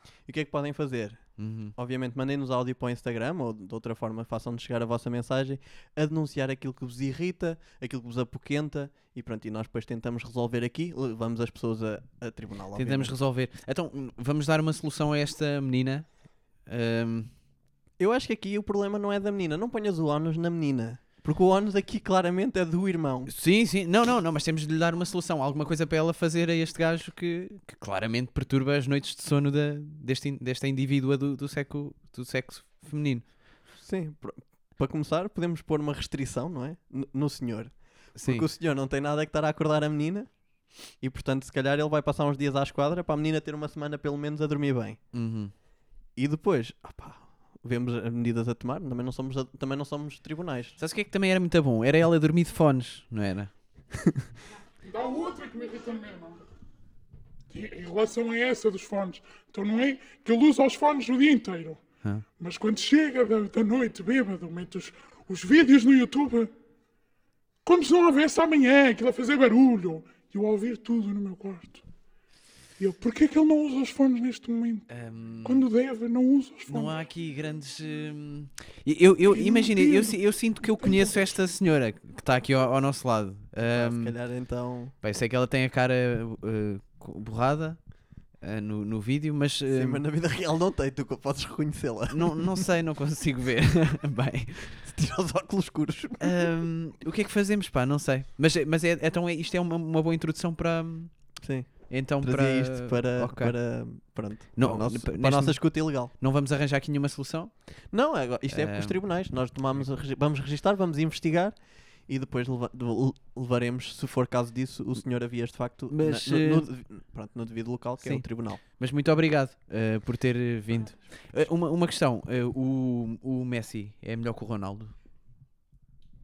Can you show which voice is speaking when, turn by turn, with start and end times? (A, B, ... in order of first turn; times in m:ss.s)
0:00.3-0:13.1 A
0:01.4-0:01.7 B
0:12.8-0:16.1 B
0:16.6-0:17.3 B
0:18.0-0:23.3 A
0:23.3-0:33.2 B
0:33.8-0:40.3 A
0:38.2-0:38.5 B
0:41.0-0:45.0 A
0:45.1-0:45.5 B
0:46.2-0:50.8 A
0:50.8-0:53.5 B
0:54.8-0:56.4 C
0:57.5-1:01.8 C
1:02.4-1:06.5 C
1:07.6-1:11.8 C
1:12.8-1:14.9 C
1:14.9-1:15.7 B
1:15.4-1:17.0 C
1:16.7-1:24.2 B
1:19.2-1:21.4 C
1:23.6-1:25.0 A
1:25.0-1:27.8 B
1:28.4-1:30.0 B
1:29.7-1:32.7 A
1:32.1-1:34.7 B
1:34.7-1:36.5 A
1:36.2-1:41.1 B
1:41.4-1:46.1 A
1:41.9-1:43.6 B
1:44.6-1:47.5 B
1:47.9-1:58.6 A
1:48.5-1:49.0 B
1:55.9-1:56.7 B
1:58.0-2:04.9 B